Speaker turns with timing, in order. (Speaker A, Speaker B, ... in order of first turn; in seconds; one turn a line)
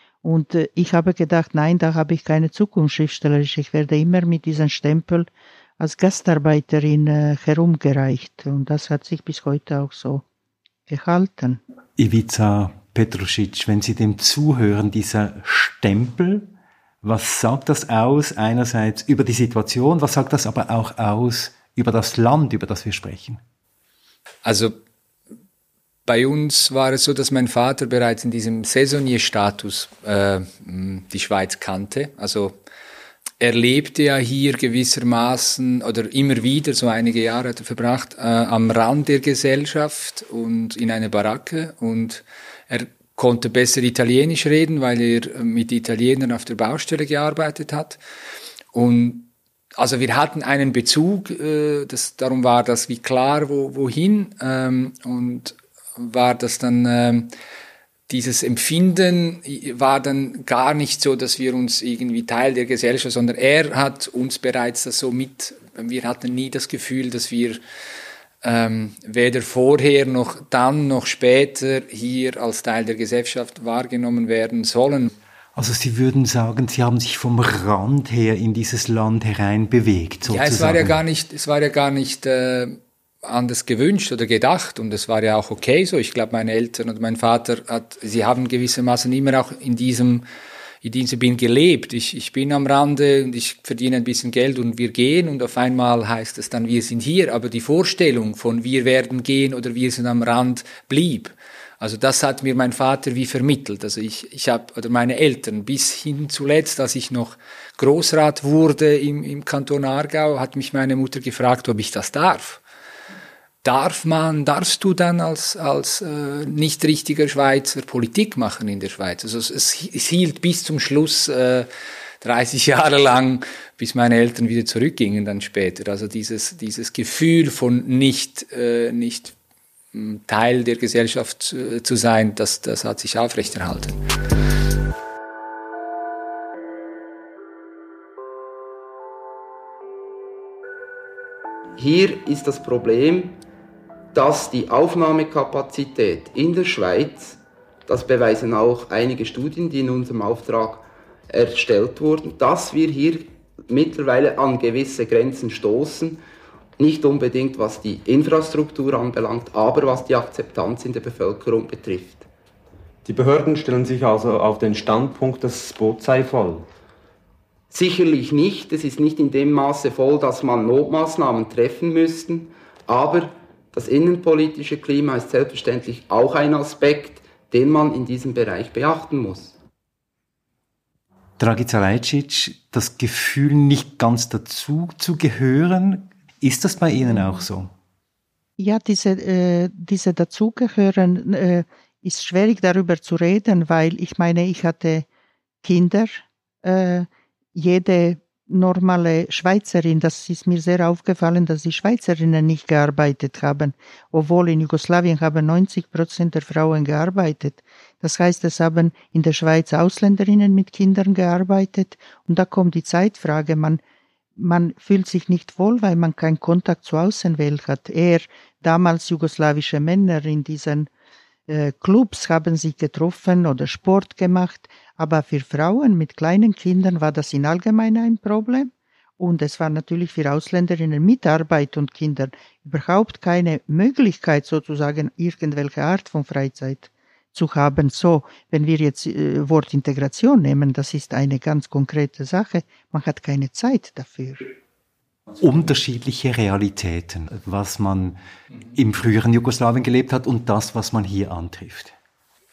Speaker A: 0.2-5.3
Speaker A: 5.8-10.2
Speaker A: 10.9-11.6
Speaker B: 12.0-23.4
Speaker C: 24.4-24.8
Speaker C: 26.1-32.6
Speaker C: 33.4-48.0
Speaker C: 48.7-57.3
Speaker C: 58.1-67.6
Speaker C: 68.4-75.1
Speaker B: 75.5-81.0
Speaker C: 80.3-90.2
Speaker C: 90.8-112.6
Speaker C: 113.6-121.7
Speaker C: 122.2-129.3
Speaker C: 129.9-134.0
Speaker D: 141.8-143.4
Speaker D: 144.1-156.2
Speaker D: 156.8-162.2
Speaker E: 163.0-166.7
Speaker D: 167.7-179.5
Speaker B: 181.4-187.7
Speaker A: 188.6-195.1
Speaker A: 195.6-213.8
Speaker A: 214.4-220.9
Speaker A: 221.5-244.5
Speaker B: 245.4-248.2
Speaker B: 248.7-251.9